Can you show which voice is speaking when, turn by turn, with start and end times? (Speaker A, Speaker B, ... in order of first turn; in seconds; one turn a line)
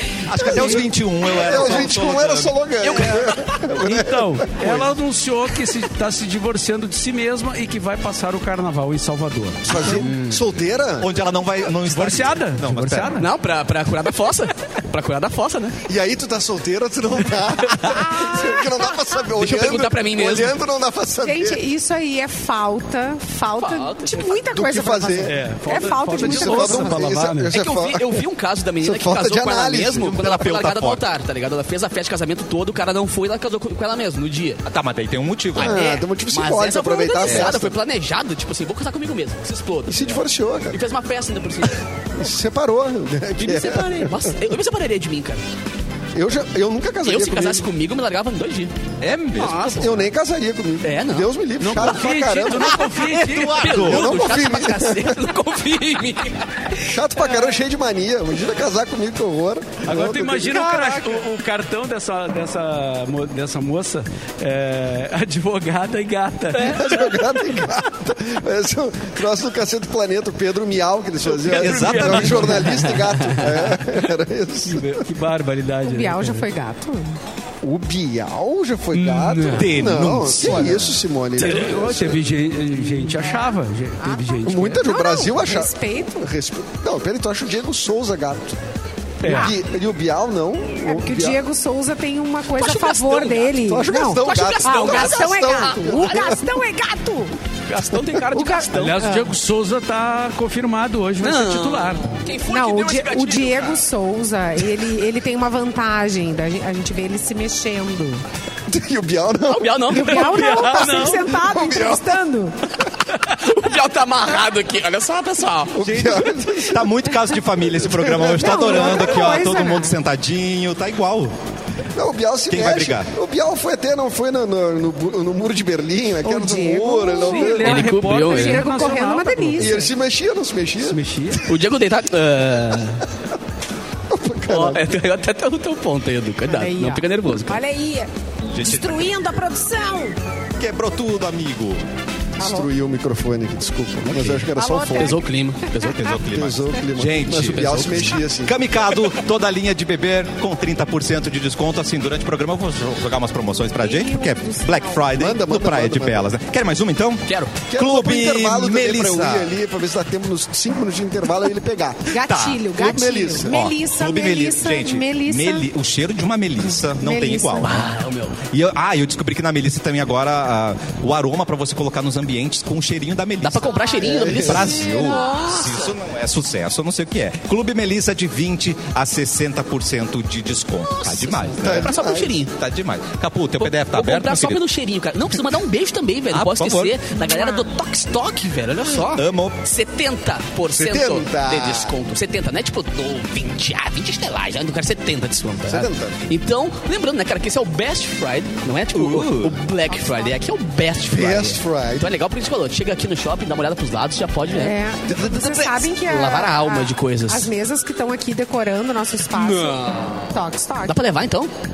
Speaker A: 0.2-3.1
Speaker B: 0.3-4.9
Speaker C: 2.8-3.5
Speaker D: 3.6-10.1
Speaker B: 9.7-11.1
Speaker C: 9.8-10.4
Speaker A: 11.0-13.1
Speaker D: 11.8-13.3
Speaker C: 13.2-15.8
Speaker B: 15.9-21.6
Speaker E: 17.8-19.0
Speaker C: 19.4-20.6
Speaker E: 21.2-26.9
Speaker C: 23.6-24.4
Speaker B: 24.5-25.4
Speaker D: 25.2-27.5
Speaker B: 26.2-28.2
Speaker C: 27.5-34.6
Speaker B: 28.8-30.1
Speaker A: 30.0-31.0
Speaker A: 34.6-35.8
Speaker B: 35.6-37.8
Speaker C: 35.6-41.9
Speaker A: 37.2-37.5
Speaker B: 39.9-40.8
Speaker B: 42.1-44.3
Speaker C: 43.4-45.4
Speaker B: 46.1-47.7
Speaker C: 47.0-48.7
Speaker A: 49.0-49.9
Speaker C: 49.4-50.0
Speaker B: 49.7-52.8
Speaker C: 50.8-56.8
Speaker D: 51.6-53.9
Speaker A: 52.6-54.4
Speaker B: 53.9-55.2
Speaker B: 56.8-60.8
Speaker D: 59.8-66.9
Speaker B: 66.5-75.0
Speaker D: 71.3-72.9
Speaker A: 71.5-72.6
Speaker C: 72.7-73.7
Speaker D: 74.7-76.5
Speaker E: 75.8-77.2
Speaker B: 77.6-82.2
Speaker D: 79.0-79.7
Speaker A: 79.5-81.0
Speaker D: 81.4-84.9
Speaker E: 83.2-86.3
Speaker B: 84.5-88.6
Speaker D: 89.2-89.6
Speaker B: 89.2-91.4
Speaker E: 89.2-89.5
Speaker E: 90.8-97.3
Speaker C: 92.6-93.5
Speaker B: 93.6-96.4
Speaker C: 94.2-96.4
Speaker C: 97.7-99.1
Speaker E: 98.3-99.3
Speaker D: 98.7-102.3
Speaker C: 101.2-103.8
Speaker E: 102.5-108.2
Speaker B: 108.7-110.0
Speaker C: 109.5-111.1
Speaker E: 109.9-112.6
Speaker D: 110.0-111.3
Speaker B: 111.3-112.2
Speaker C: 113.2-116.0
Speaker B: 115.7-117.1
Speaker A: 115.9-121.3
Speaker B: 117.6-119.4
Speaker E: 118.3-120.0
Speaker B: 122.0-127.6
Speaker A: 122.5-123.1
Speaker E: 126.2-129.8
Speaker D: 127.2-129.9
Speaker C: 127.6-128.7
Speaker B: 129.6-131.0
Speaker D: 130.8-131.5
Speaker C: 131.4-133.0
Speaker B: 134.1-134.8
Speaker C: 134.5-137.6
Speaker E: 136.5-140.2
Speaker A: 138.5-139.1
Speaker A: 140.6-141.8
Speaker E: 142.4-142.7
Speaker B: 142.4-145.2
Speaker C: 144.1-144.4
Speaker E: 144.5-145.2
Speaker C: 145.0-146.1
Speaker E: 145.8-146.1
Speaker A: 145.8-159.5
Speaker B: 146.2-148.6
Speaker C: 147.4-148.1
Speaker E: 153.8-155.1
Speaker B: 155.1-156.3
Speaker C: 157.3-157.5
Speaker B: 157.7-162.2
Speaker E: 162.1-165.7
Speaker A: 162.2-162.8
Speaker B: 162.8-163.6
Speaker A: 163.4-167.9
Speaker E: 167.0-167.9
Speaker C: 167.6-168.4
Speaker A: 168.4-181.9
Speaker C: 173.4-175.9
Speaker E: 173.7-174.0
Speaker B: 174.0-174.8
Speaker E: 174.7-175.7
Speaker C: 180.8-182.5
Speaker B: 181.6-182.4
Speaker A: 182.5-184.6
Speaker C: 183.6-207.5
Speaker A: 186.3-187.0
Speaker E: 187.2-187.6
Speaker A: 188.9-189.6
Speaker B: 190.7-192.0
Speaker B: 195.7-196.2
Speaker A: 198.9-199.6
Speaker E: 199.9-200.4
Speaker B: 201.1-202.1
Speaker E: 204.5-211.0
Speaker C: 209.3-210.3
Speaker C: 210.9-211.5